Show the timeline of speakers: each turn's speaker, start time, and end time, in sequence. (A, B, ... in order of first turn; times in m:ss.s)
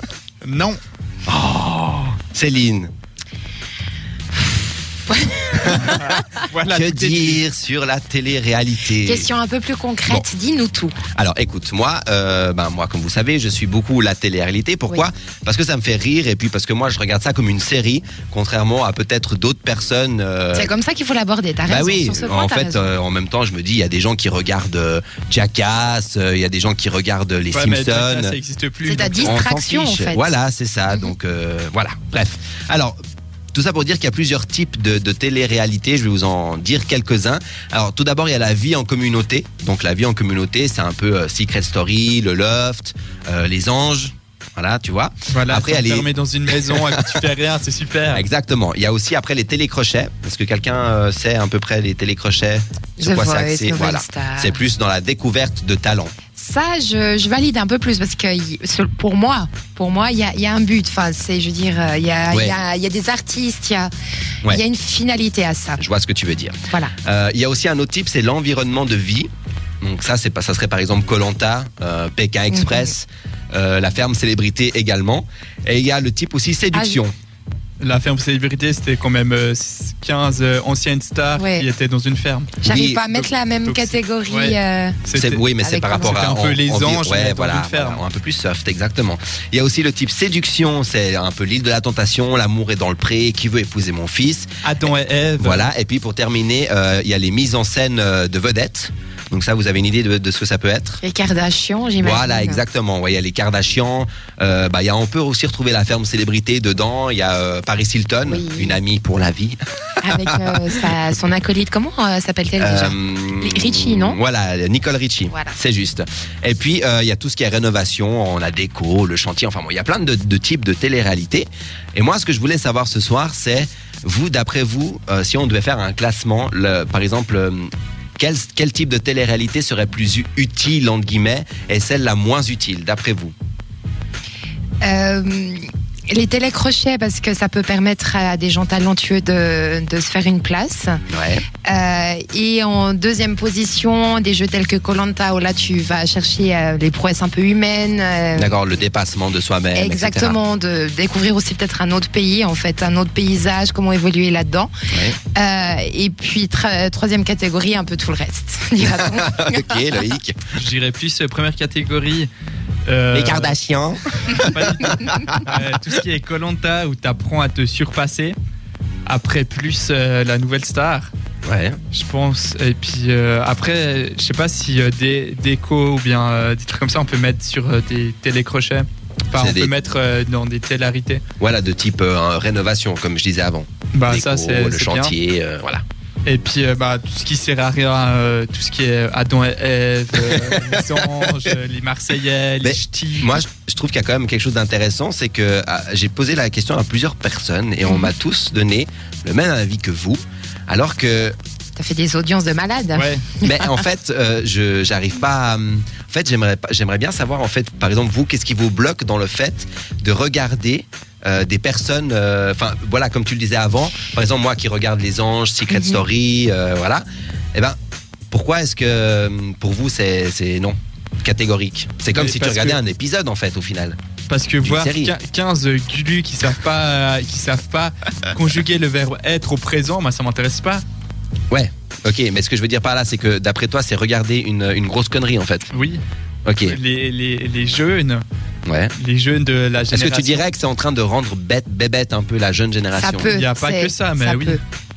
0:00.4-0:00.8 A
0:01.3-0:02.9 B
0:05.1-0:06.3 C
0:05.6-0:07.4 A
0:06.7-0:09.3 B
0:09.0-0:11.0 C
0:11.1-0:20.7 B
0:20.5-0:22.9 C
0:21.7-0:28.4 B
0:27.5-0:29.4 A
0:28.8-0:30.3 C
0:29.2-0:33.0 B
0:33.5-0:47.3 B
0:45.3-0:48.2 A
0:48.1-0:56.1 B
0:53.0-0:54.6 C
0:56.4-1:03.9 C
1:02.3-1:02.6 B
1:04.5-1:05.8 C
1:05.8-1:09.3 B
1:09.8-1:17.2 B
1:12.5-1:12.9 C
1:16.7-1:17.0 C
1:17.8-1:28.0 A
1:21.4-1:21.7 C
1:22.6-1:25.0 C
1:22.6-1:23.0 B
1:25.1-1:34.5 B
1:25.6-1:26.2 C
1:34.6-1:35.7 A
1:35.4-1:41.0 B
1:41.0-1:42.6 C
1:42.0-1:50.9 B
1:48.2-1:48.8 C
1:50.0-1:54.2 C
1:52.6-2:13.3 B
1:55.3-1:55.6 C
2:14.8-2:21.0 C
2:21.1-2:21.4 B
2:21.6-2:28.6 C
2:28.4-2:30.4 B
2:29.8-2:34.7 C
2:34.9-2:35.2 B
2:35.3-2:39.8 C
2:38.8-2:40.4 B
2:40.5-2:42.3 A
2:42.9-2:43.6 A
2:43.1-2:45.5 B
2:44.3-2:48.4 A
2:49.1-2:51.1 A
2:51.4-2:51.8 B
2:51.9-3:01.2 A
2:59.3-2:59.7 B
3:01.4-3:05.8 B
3:03.9-3:05.1 A
3:06.3-3:13.4 A
3:10.4-3:10.7 B
3:12.6-3:21.4 B
3:17.9-3:18.1 C
3:21.8-3:23.8 C
3:23.0-3:23.3 A
3:23.4-3:37.8 B
3:35.7-3:36.0 C
3:38.3-3:44.0 B
3:42.1-3:42.8 A
3:44.3-3:50.8 A
3:44.6-3:45.2 B
3:51.5-3:55.7 B
3:55.7-3:56.0 A
3:56.5-3:56.8 B
3:56.6-3:58.2 A
3:58.7-3:59.0 B
3:59.0-4:00.5 A
3:59.9-4:03.3 B
4:02.9-4:04.6 C
4:03.2-4:04.6 A